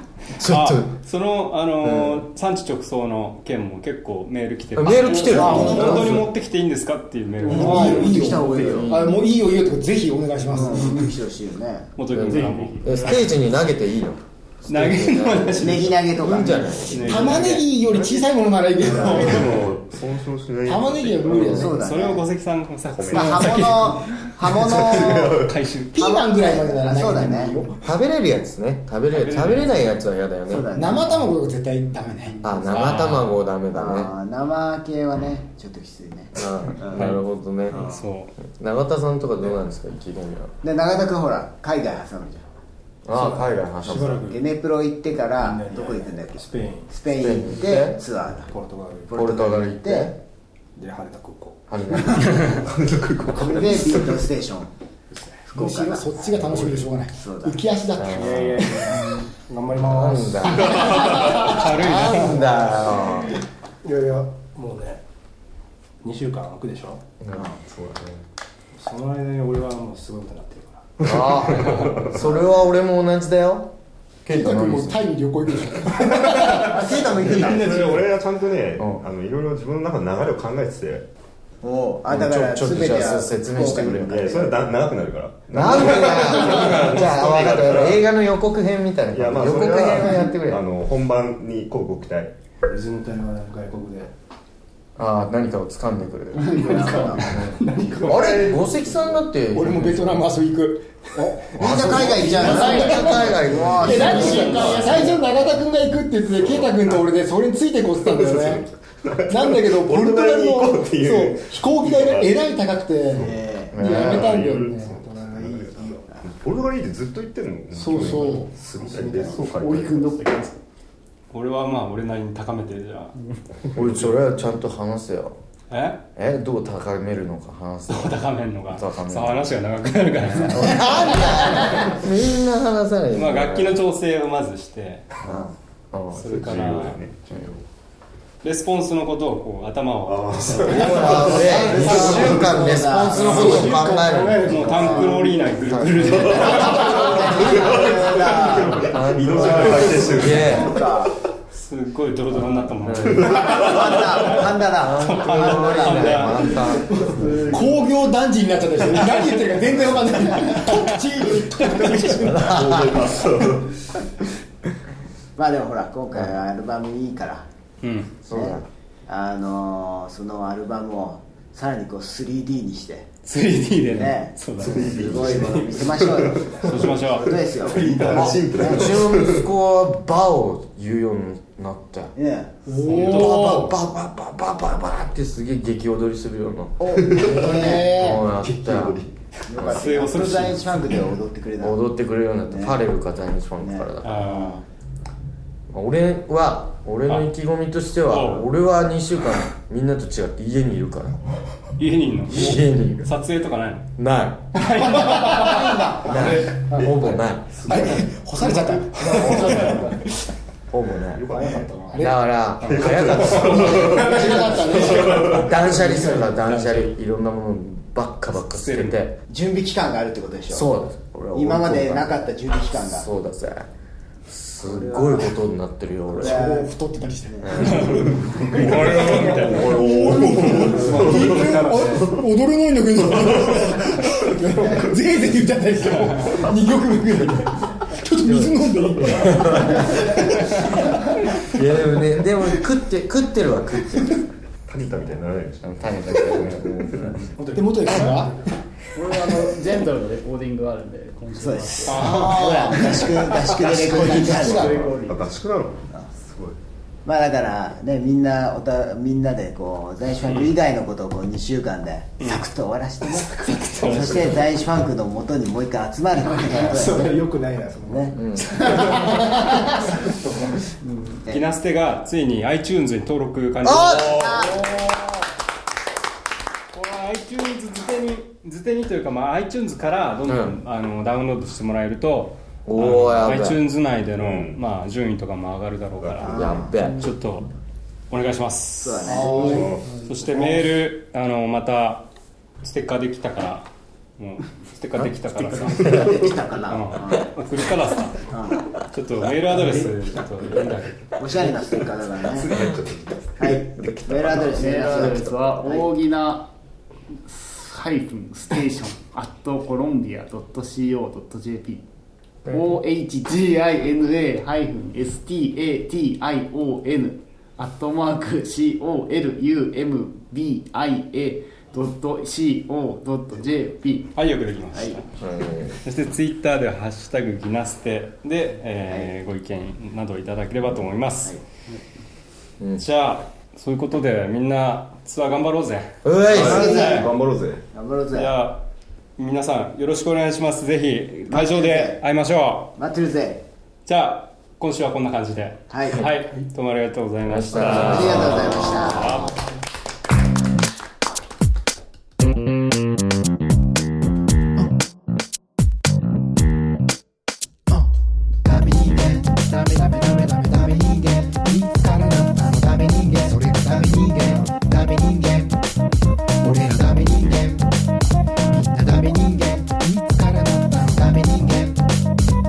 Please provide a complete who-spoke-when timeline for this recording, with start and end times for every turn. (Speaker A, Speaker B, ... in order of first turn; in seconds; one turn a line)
Speaker A: 0.4-0.9
Speaker B: 0.4-8.4
Speaker A: 1.8-2.2
Speaker A: 4.8-6.2
Speaker C: 5.3-6.2
Speaker D: 5.5-6.2
Speaker C: 7.4-11.1
Speaker E: 7.5-9.0
Speaker A: 8.5-9.2
Speaker E: 10.5-11.9
Speaker B: 12.0-13.3
Speaker A: 12.1-17.3
Speaker B: 14.7-16.0
Speaker E: 15.5-17.3
Speaker B: 16.8-17.8
Speaker C: 17.0-19.6
Speaker D: 17.8-21.6
Speaker E: 18.8-19.3
Speaker C: 20.7-21.8
Speaker A: 21.3-21.7
Speaker E: 21.4-22.3
Speaker B: 21.6-26.2
Speaker D: 22.9-23.9
Speaker E: 23.1-25.4
Speaker D: 24.5-25.5
Speaker C: 25.9-27.8
Speaker E: 26.0-27.6
Speaker A: 27.8-30.7
Speaker B: 29.1-30.0
Speaker E: 30.5-31.2
Speaker C: 30.7-32.4
Speaker A: 32.4-34.1
Speaker B: 32.7-33.3
Speaker E: 33.7-37.2
Speaker A: 36.4-37.9
Speaker B: 36.9-38.3
Speaker E: 37.7-38.0
Speaker A: 38.4-40.5
Speaker E: 40.6-42.5
Speaker A: 43.0-44.2
Speaker F: 43.1-44.5
Speaker E: 44.3-48.5
Speaker F: 45.4-46.9
Speaker A: 47.1-48.0
Speaker F: 48.5-49.2
Speaker E: 49.1-50.1
Speaker A: 49.1-50.2
Speaker F: 50.8-51.6
Speaker A: 51.7-52.6
Speaker D: 52.5-54.2
Speaker E: 53.3-54.7
Speaker F: 55.1-55.5
Speaker E: 55.5-56.3
Speaker C: 55.5-59.3
Speaker D: 56.4-56.9
Speaker E: 57.1-57.6
Speaker A: 58.0-58.7
Speaker F: 58.1-60.8
Speaker A: 59.8-63.4
Speaker C: 60.5-61.6
Speaker D: 60.7-61.1
Speaker B: 61.0-62.4
Speaker F: 62.4-63.3
Speaker F: 63.8-65.0
Speaker F: 66.0-67.0
Speaker A: 67.2-67.5
Speaker E: 67.3-67.6
Speaker D: 67.6-68.2
Speaker F: 68.8-70.9
Speaker D: 71.0-72.1
Speaker A: 71.0-73.7
Speaker E: 72.2-72.7
Speaker A: 74.3-75.1
Speaker C: 74.3-76.8
Speaker E: 76.2-78.0
Speaker D: 77.1-81.1
Speaker A: 78.8-79.0
Speaker E: 81.6-84.6
Speaker A: 82.1-84.4
Speaker D: 84.0-88.1
Speaker A: 85.5-90.6
Speaker B: 86.5-87.0
Speaker D: 89.1-92.3
Speaker F: 92.7-94.1
Speaker A: 95.0-100.2
Speaker F: 96.4-98.9
Speaker E: 96.4-97.3
Speaker G: 96.8-97.1
Speaker C: 99.5-108.6
Speaker E: 101.5-105.3
Speaker A: 101.6-105.1
Speaker D: 106.4-107.1
Speaker D: 108.0-112.4
Speaker C: 109.3-115.0
Speaker D: 113.1-120.2
Speaker E: 113.1-113.8
Speaker A: 113.7-114.4
Speaker E: 115.1-116.3
Speaker C: 117.7-118.5
Speaker G: 118.9-120.6
Speaker E: 118.9-119.4
Speaker B: 121.3-123.2
Speaker D: 123.8-124.2
Speaker A: 123.8-125.4
Speaker B: 125.7-126.0
Speaker A: 126.2-129.6
Speaker B: 127.9-131.3
Speaker A: 130.5-133.8
Speaker B: 133.1-135.1
Speaker A: 135.2-136.4
Speaker B: 136.2-137.0
Speaker D: 136.2-137.7
Speaker B: 138.4-142.4
Speaker D: 140.1-142.8
Speaker A: 140.6-144.6
Speaker E: 141.0-143.9
Speaker F: 143.1-146.3
Speaker B: 143.2-143.7
Speaker B: 144.5-147.5
Speaker E: 144.6-145.2
Speaker A: 145.7-146.7
Speaker D: 146.1-150.7
Speaker E: 146.4-148.9
Speaker A: 148.9-150.8
Speaker E: 149.5-151.1
Speaker B: 151.5-156.6
Speaker A: 152.8-153.5
Speaker D: 153.1-154.2
Speaker E: 153.3-157.8
Speaker A: 154.8-157.0
Speaker D: 156.9-157.6
Speaker C: 157.5-162.5
Speaker B: 160.4-161.0
Speaker B: 161.6-162.3
Speaker D: 161.8-163.8
Speaker A: 162.2-163.0
Speaker E: 165.4-167.5
Speaker B: 167.8-168.1
Speaker A: 168.2-168.7
Speaker E: 168.3-173.1
Speaker B: 173.2-175.7
Speaker E: 173.9-179.0
Speaker D: 174.5-179.5
Speaker B: 176.6-178.1
Speaker F: 177.7-178.3
Speaker A: 178.1-182.1
Speaker E: 182.2-182.6
Speaker C: 182.7-183.5
Speaker B: 182.8-183.7
Speaker A: 182.9-186.9
Speaker E: 186.8-188.0
Speaker D: 186.9-189.2
Speaker C: 187.2-188.3
Speaker A: 187.8-189.0
Speaker E: 189.5-191.8
Speaker A: 189.6-190.0
Speaker B: 189.6-190.9
Speaker A: 191.6-194.4
Speaker E: 192.5-192.8
Speaker E: 193.6-194.6
Speaker B: 194.0-194.6
Speaker A: 195.7-201.2
Speaker B: 198.1-198.5
Speaker B: 201.8-203.9
Speaker A: 202.3-203.1
Speaker A: 204.0-204.6
Speaker B: 204.5-206.0
Speaker C: 204.9-206.8
Speaker A: 206.0-207.9
Speaker D: 206.2-208.2
Speaker C: 207.7-210.1
Speaker D: 209.0-209.8
Speaker A: 209.2-209.8
Speaker B: 209.3-209.7
Speaker A: 210.7-219.2
Speaker D: 211.1-212.1
Speaker C: 211.9-212.2
Speaker D: 212.6-216.1
Speaker B: 212.6-213.1
Speaker C: 213.8-215.5
Speaker B: 216.1-217.0
Speaker B: 218.4-219.0
Speaker E: 219.3-220.7
Speaker A: 220.5-223.7
Speaker E: 221.3-223.1
Speaker A: 224.3-226.6
Speaker E: 224.6-225.4
Speaker E: 226.1-226.7
Speaker C: 226.2-227.4
Speaker E: 227.2-228.0
Speaker A: 227.4-228.4
Speaker B: 227.6-229.7
Speaker D: 227.8-232.1
Speaker F: 228.5-232.2
Speaker C: 229.6-241.4
Speaker D: 233.0-233.8
Speaker B: 235.9-236.4
Speaker A: 238.2-240.6
Speaker A: 241.4-244.3
Speaker D: 244.7-247.2
Speaker A: 245.6-247.2
Speaker F: 247.3-248.4
Speaker C: 247.5-248.3
Speaker G: 248.9-255.3
Speaker E: 251.4-254.8
Speaker B: 251.9-253.0
Speaker C: 252.1-254.7
Speaker D: 254.3-256.6
Speaker E: 257.1-267.1
Speaker B: 260.2-260.6
Speaker B: 262.2-262.5
Speaker B: 263.1-264.4
Speaker F: 266.5-270.6
Speaker E: 267.9-268.2
Speaker A: 268.1-268.9
Speaker E: 271.3-271.5
Speaker B: 271.3-274.9
Speaker A: 273.6-274.5
Speaker E: 273.9-274.8
Speaker B: 276.7-287.5
Speaker A: 280.3-280.6
Speaker A: 282.7-283.6
Speaker D: 284.1-284.6
Speaker D: 286.0-286.4
Speaker E: 286.2-286.8
Speaker A: 286.2-287.1
Speaker B: 288.1-292.1
Speaker E: 288.8-289.8
Speaker C: 289.1-290.0
Speaker D: 289.4-290.0
Speaker B: 292.6-298.3
Speaker E: 295.7-297.3
Speaker D: 295.8-296.4
Speaker E: 298.3-298.7
Speaker B: 298.9-301.2
Speaker E: 301.2-302.5
Speaker D: 302.2-303.6
Speaker E: 303.4-305.9
Speaker A: 303.4-305.5
Speaker G: 304.5-306.5
Speaker G: 307.2-311.9
Speaker G: 312.4-324.1
Speaker A: 312.5-312.8
Speaker B: 324.1-325.1
Speaker E: 324.7-325.0
Speaker A: 325.2-325.8
Speaker B: 325.8-331.4
Speaker E: 328.9-329.1
Speaker B: 332.8-337.1
Speaker A: 336.0-336.7
Speaker D: 336.3-337.6
Speaker E: 336.3-337.2
Speaker E: 337.7-338.4
Speaker B: 338.1-338.6
Speaker B: 339.2-342.8
Speaker E: 341.3-342.0
Speaker E: 342.8-343.4
Speaker B: 343.9-349.4
Speaker E: 345.7-346.1
Speaker A: 347.3-349.2
Speaker E: 347.6-349.3
Speaker C: 358.4-365.6
Speaker C: 366.4-367.7
Speaker C: 368.5-371.9